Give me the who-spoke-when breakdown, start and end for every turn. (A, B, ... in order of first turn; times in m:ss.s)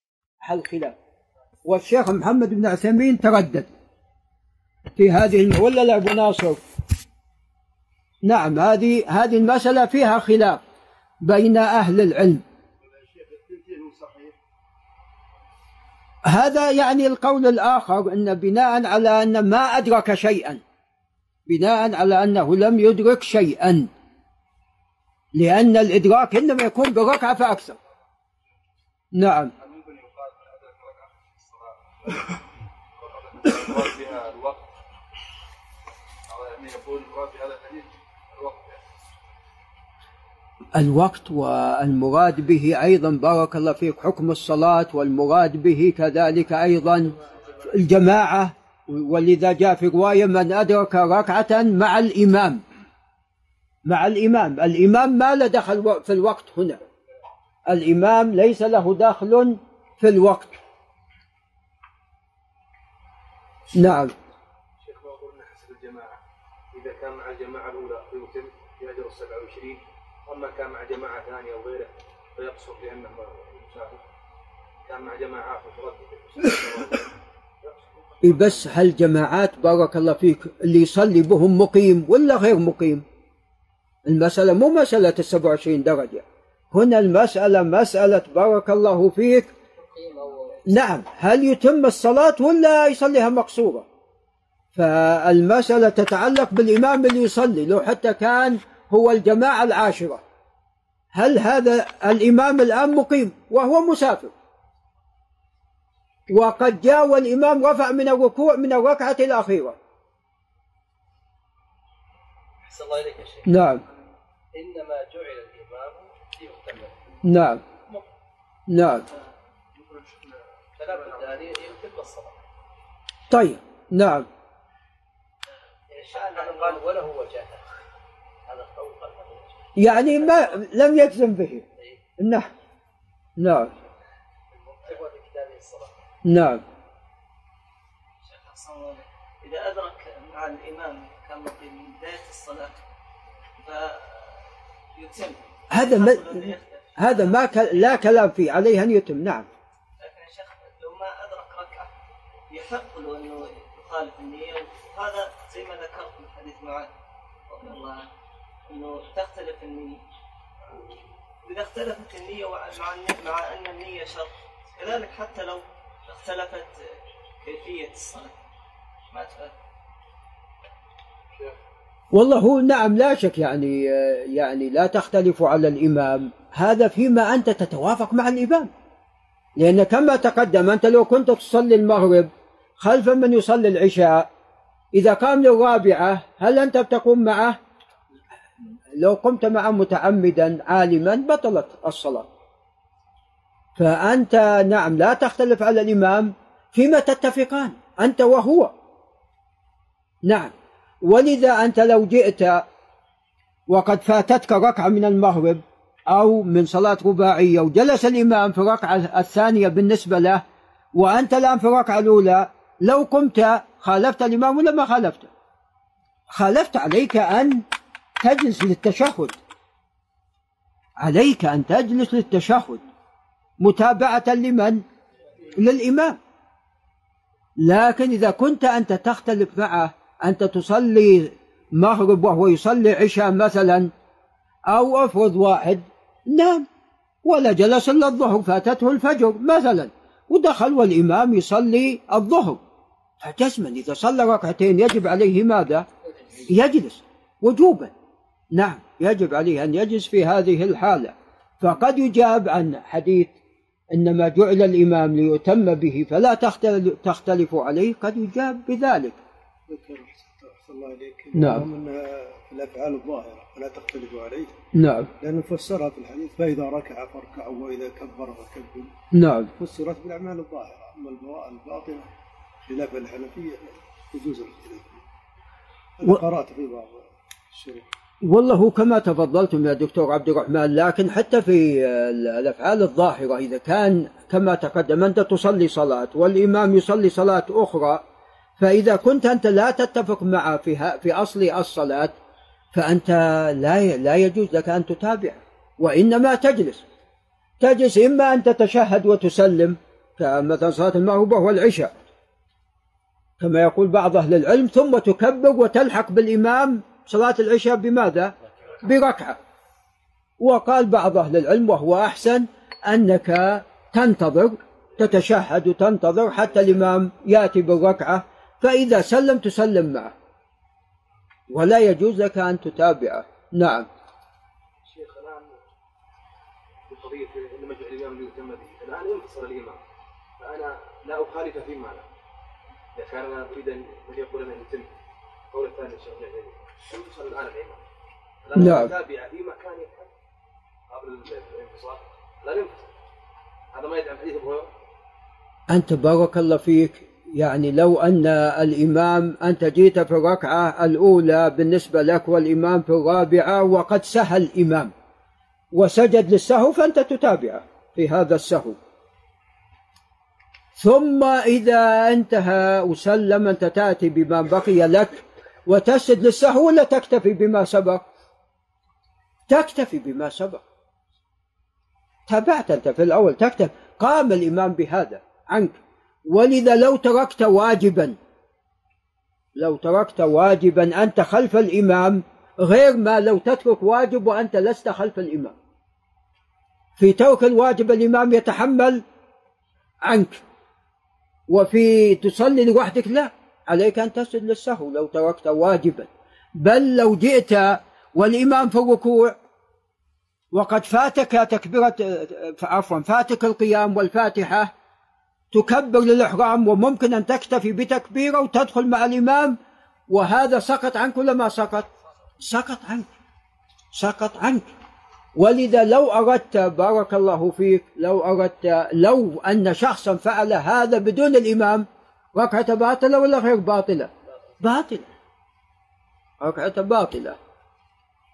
0:00.4-0:01.0 A
0:01.7-0:03.7 A
0:05.0-0:06.6 A
0:08.2-0:10.6 A
0:11.2-0:12.4 A
0:12.8-0:14.4 B
0:16.2-0:20.6 A
0:21.5-0:23.9 A
0:25.4-0:27.8 A
0:29.1-0:29.5 A
0:29.6-0:32.4 C
0:33.0-0:34.6 C
0:36.3-0:38.8 C
0:40.8-0:52.6 A
0:53.9-0:56.8 A
0:57.7-1:00.6 A
1:03.8-1:04.1 A
1:04.8-1:06.2 C
1:06.7-1:14.0 C
1:14.9-1:17.1 C
1:17.6-1:18.4 C
1:18.2-1:23.0 A
1:24.1-1:29.5 A
1:30.0-1:30.6 D
1:30.7-1:33.8 A
1:34.8-1:40.2 A
1:41.1-1:44.3 A
1:46.3-1:49.8 A
1:52.7-1:53.5 D
1:53.5-1:53.8 A
1:54.5-1:56.9 D
1:57.2-1:57.6 A
1:58.7-1:59.0 A
2:00.8-2:02.4 D
2:03.3-2:04.3 A
2:05.9-2:07.6 D
2:06.1-2:06.8 E
2:08.5-2:09.5 D
2:09.8-2:11.6 A
2:10.1-2:10.4 D
2:12.2-2:12.5 A
2:13.4-2:13.7 A
2:14.6-2:15.9 D
2:16.3-2:16.6 A
2:18.2-2:22.8 E
2:23.6-2:24.4 E
2:25.0-2:28.0 E
2:25.7-2:29.5 A
2:30.0-2:31.9 E
2:32.5-2:36.9 E
2:37.5-2:38.1 E
2:38.7-2:40.0 E
2:41.4-2:48.4 E
2:49.1-2:49.6 E
2:52.1-2:58.7 A
2:59.6-3:02.3 A
3:02.8-3:04.3 A
3:05.0-3:07.6 A
3:09.0-3:12.3 A
3:13.8-3:18.7 A
3:20.3-3:20.5 A
3:21.0-3:22.6 A
3:23.7-3:30.4 A
3:31.0-3:35.3 A
3:36.3-3:37.6 A
3:38.2-3:39.4 A
3:41.0-3:42.8 A
3:43.6-3:44.8 A
3:45.6-3:46.2 A
3:47.6-3:53.9 A
3:54.7-3:56.7 A
3:57.2-4:02.6 A
4:03.2-4:05.9 A
4:06.5-4:07.9 A
4:08.5-4:13.3 A
4:13.9-4:19.2 A
4:19.7-4:24.6 B
4:21.4-4:21.7 A
4:24.7-4:25.1 A
4:25.2-4:28.9 B
4:29.1-4:29.5 A
4:29.6-4:32.1 B
4:32.7-4:35.0 B
4:36.0-4:37.9 B
4:38.2-4:48.0 A
4:48.6-4:52.1 A
4:52.7-4:56.8 A
4:57.6-5:01.9 A
5:03.4-5:09.4 A
5:10.4-5:20.1 A
5:21.5-5:23.9 A
5:24.8-5:25.5 C
5:26.9-5:29.8 C
5:30.4-5:32.0 C
5:33.0-5:34.9 C
5:35.5-5:37.8 C
5:38.4-5:40.1 C
5:38.6-5:38.9 A
5:40.9-5:42.9 C
5:43.7-5:44.7 C
5:45.7-5:54.9 A
5:55.7-5:58.8 A
6:00.8-6:08.0 A
6:09.5-6:10.6 A
6:12.3-6:18.2 A
6:19.6-6:25.6 A
6:27.0-6:29.0 A
6:30.0-6:30.4 A
6:31.5-6:39.4 A
6:40.5-6:44.7 A
6:45.5-6:49.6 A
6:50.1-6:51.9 A
6:52.4-6:53.1 A
6:53.9-6:54.7 A
6:55.4-7:05.1 A
7:06.4-7:07.4 A